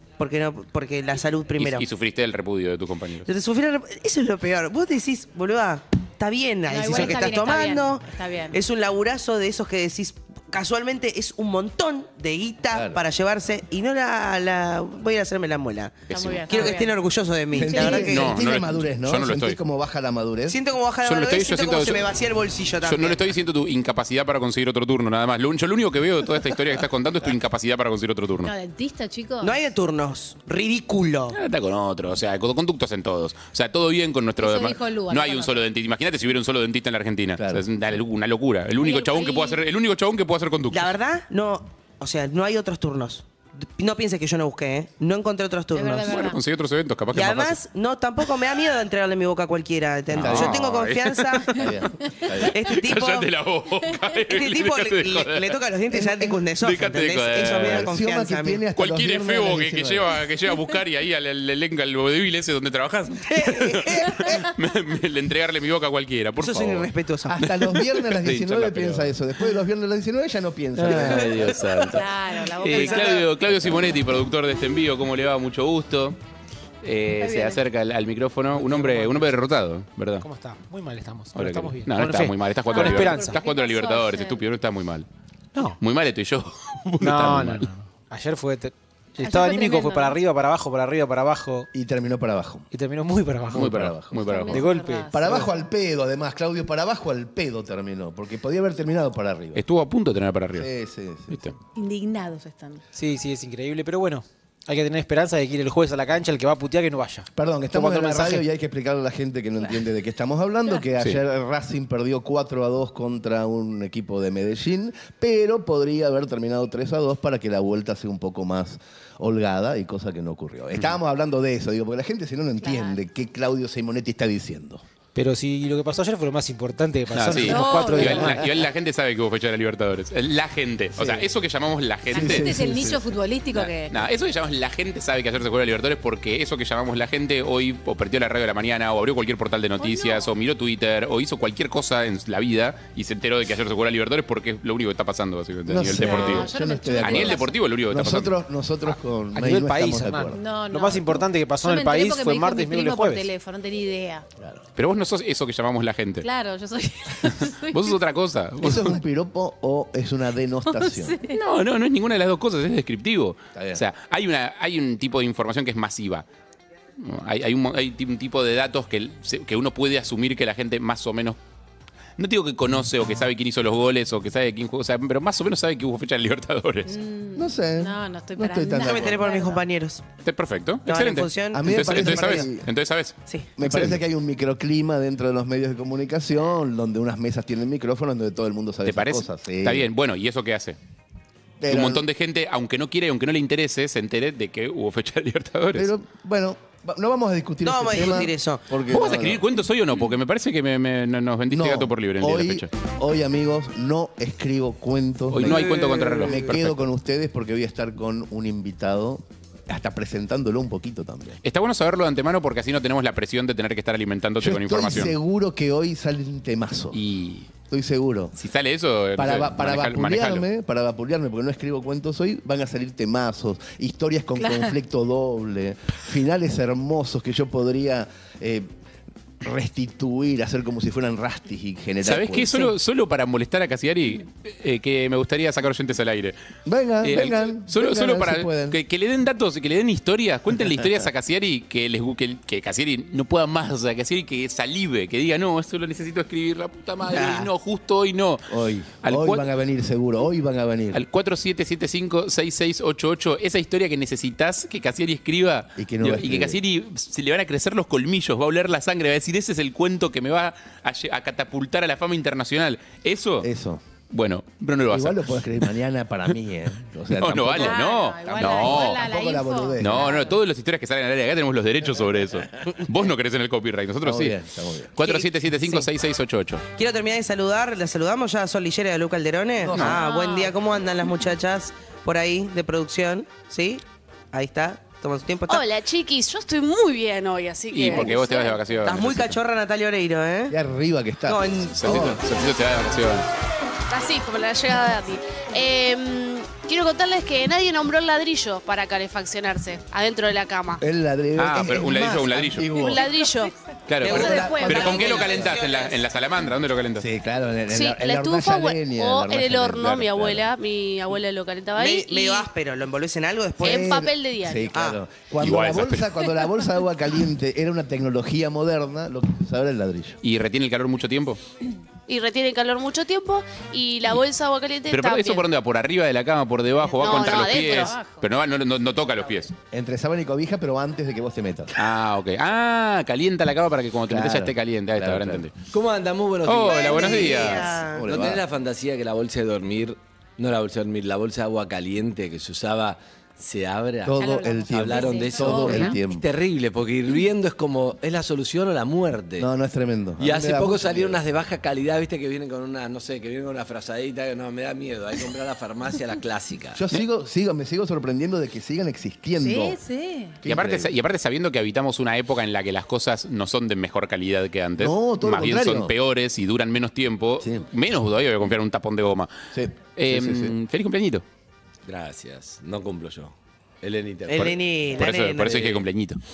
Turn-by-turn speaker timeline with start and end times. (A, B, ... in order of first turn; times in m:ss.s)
0:00.2-0:01.8 A
0:01.6-0:03.3 B
0:03.3-0:18.4 A
0:06.7-0:08.6 C
0:12.7-0:13.0 D
0:16.1-0:16.8 B
0:16.1-0:16.9 C
0:17.5-0:20.6 D
0:17.6-0:18.0 C
0:18.0-0:19.6 B
0:20.5-0:23.3 A
0:21.0-0:22.1 B
0:22.8-0:28.5 B
0:28.4-0:29.6 C
0:29.4-0:31.4 A
0:31.3-0:40.9 B
0:34.4-0:35.6 C
0:37.4-0:37.6 D
0:38.8-0:39.6 C
0:40.7-0:46.3 A
0:45.7-0:46.4 C
0:46.1-0:47.6 B
0:47.1-0:51.6 A
0:50.1-0:51.7 B
0:50.2-0:50.6 D
0:51.5-0:52.6 D
0:52.3-0:55.6 B
0:52.3-0:53.3 A
0:54.3-0:58.6 A
0:56.6-0:57.9 B
0:57.4-1:00.1 D
0:58.8-1:09.1 B
1:03.3-1:04.4 A
1:06.4-1:07.8 A
1:07.3-1:11.5 D
1:10.8-1:12.0 B
1:11.8-1:13.2 C
1:12.6-1:16.2 B
1:12.7-1:13.2 A
1:16.8-1:20.3 B
1:17.2-1:17.6 C
1:18.5-1:19.3 E
1:20.2-1:23.4 E
1:21.3-1:25.1 B
1:22.7-1:24.4 C
1:25.8-1:27.7 B
1:27.0-1:31.7 E
1:29.2-1:30.2 C
1:31.7-1:32.7 D
1:32.7-1:33.8 E
1:33.5-1:34.5 D
1:33.5-1:34.6 B
1:34.2-1:35.5 C
1:34.5-1:35.5 E
1:35.1-1:39.6 D
1:39.5-1:40.7 B
1:40.5-1:41.5 D
1:41.7-1:42.8 C
1:42.9-1:48.4 E
1:47.3-2:04.8 D
2:02.6-2:03.0 C
2:05.1-2:08.5 E
2:07.1-2:12.6 B
2:07.4-2:08.4 C
2:11.0-2:11.2 D
2:12.1-2:13.9 C
2:12.1-2:13.0 D
2:13.5-2:28.4 B
2:19.8-2:20.3 C
2:25.7-2:30.4 D
2:26.0-2:27.5 C
2:29.3-2:33.3 E
2:30.3-2:34.2 C
2:34.8-2:36.3 B
2:36.2-2:38.0 C
2:37.2-2:39.0 B
2:38.6-2:41.1 D
2:40.7-2:41.4 C
2:41.3-2:46.2 B
2:43.5-2:43.8 D
2:47.0-2:51.4 B
2:52.2-2:56.9 B
2:56.8-2:59.6 C
2:57.4-2:59.2 D
2:58.8-3:00.0 A
3:00.2-3:04.0 B
3:00.8-3:02.5 A
3:01.5-3:02.7 D
3:03.6-3:09.9 D
3:08.8-3:10.8 B
3:11.6-3:12.0 D
3:11.7-3:15.9 B
3:15.7-3:19.4 D
3:17.6-3:18.6 A
3:18.9-3:22.7 B
3:21.5-3:31.4 D
3:25.3-3:26.8 B
3:31.4-3:35.1 B
3:34.4-3:37.0 D
3:36.9-3:37.5 B
3:37.7-3:38.4 D
3:38.4-3:40.4 B
3:39.2-3:48.7 D
3:44.4-3:44.7 C
3:49.4-3:52.7 D
3:52.0-3:56.4 B
3:56.6-3:58.8 D
3:57.0-4:09.5 B
4:07.1-4:07.5 A
4:08.5-4:11.0 D
4:10.9-4:23.5 B
4:15.8-4:16.6 D
4:23.4-4:23.8 D
4:24.1-4:25.4 B
4:24.9-4:30.2 D
4:27.1-4:29.0 B
4:27.6-4:30.4 C
4:29.8-4:34.4 B
4:34.0-4:34.9 D
4:34.9-4:36.6 B
4:35.0-4:35.8 A
4:36.8-4:45.7 A
4:39.6-4:39.9 D
4:39.7-4:40.0 B
4:39.8-4:40.5 C
4:45.5-4:48.6 F
4:47.7-4:49.4 B
4:48.8-4:50.6 A
4:50.5-4:52.2 D
4:51.3-4:52.0 A
4:51.7-4:53.3 B
4:53.9-5:00.8 F
5:00.8-5:03.1 D
5:01.4-5:02.8 B
5:02.8-5:03.5 F
5:03.9-5:07.1 B
5:04.0-5:06.1 A
5:04.0-5:05.5 D
5:04.1-5:04.6 F
5:07.0-5:10.4 D
5:07.7-5:12.5 F
5:09.7-5:10.3 B
5:11.8-5:14.0 A
5:13.6-5:14.7 F
5:13.6-5:20.2 D
5:14.7-5:15.0 A
5:15.4-5:16.3 B
5:20.2-5:21.4 B
5:22.1-5:25.4 F
5:24.9-5:29.5 B
5:26.8-5:28.2 C
5:27.0-5:28.0 F
5:29.7-5:31.7 D
5:31.8-5:35.6 B
5:34.1-5:35.5 D
5:35.7-5:49.5 G
5:36.4-5:37.8 B
5:36.7-5:38.1 A
5:37.9-5:38.4 D
5:44.0-5:46.2 D
5:44.2-5:46.0 C
5:49.4-5:51.2 D
5:50.2-5:56.8 G
5:56.7-5:59.8 D
5:59.4-6:00.4 C
6:00.4-6:00.9 D
6:00.4-6:09.3 B
6:04.8-6:05.9 D
6:09.5-6:10.6 D
6:09.9-6:11.2 B
6:11.8-6:15.8 G
6:14.3-6:15.6 A
6:14.3-6:16.2 B